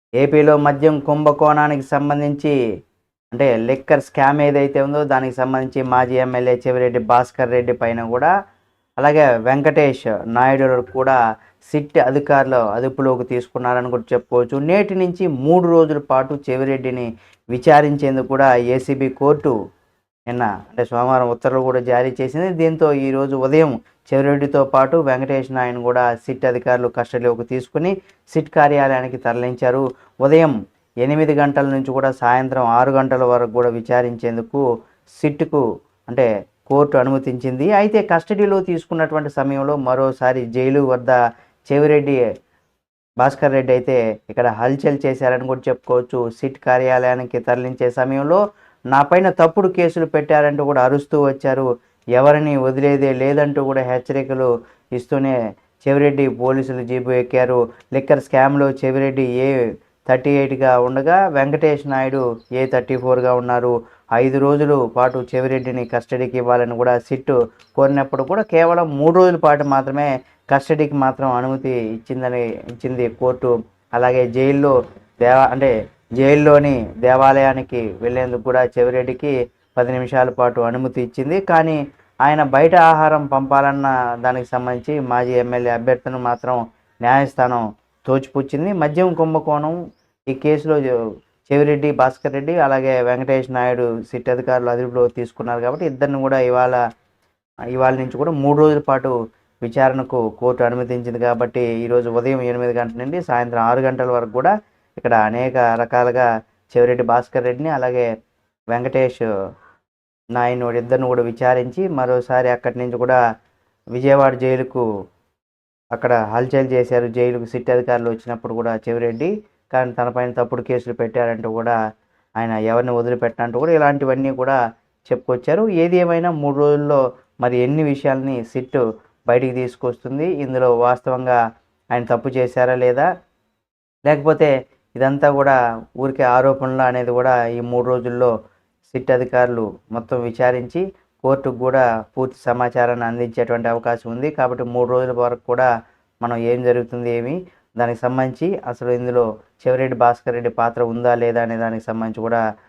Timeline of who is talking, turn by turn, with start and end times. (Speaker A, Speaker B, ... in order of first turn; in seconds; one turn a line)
Speaker A: 0.2-2.5
Speaker A: 3.3-8.3
Speaker A: 9.0-11.2
Speaker A: 11.7-19.5
Speaker A: 20.3-34.6
Speaker A: 35.2-41.2
Speaker A: 41.7-42.2
Speaker A: 43.2-48.4
Speaker A: 48.9-59.5
Speaker A: 60.1-90.8
Speaker A: 91.5-96.8
Speaker A: 97.8-108.1
Speaker A: 108.7-109.3
Speaker A: 110.3-113.2
Speaker A: 114.0-114.8
Speaker A: 115.9-121.8
Speaker A: 122.4-131.4
Speaker A: 131.9-133.1
Speaker A: 134.1-138.3
Speaker A: 138.9-145.7
Speaker A: 146.2-152.4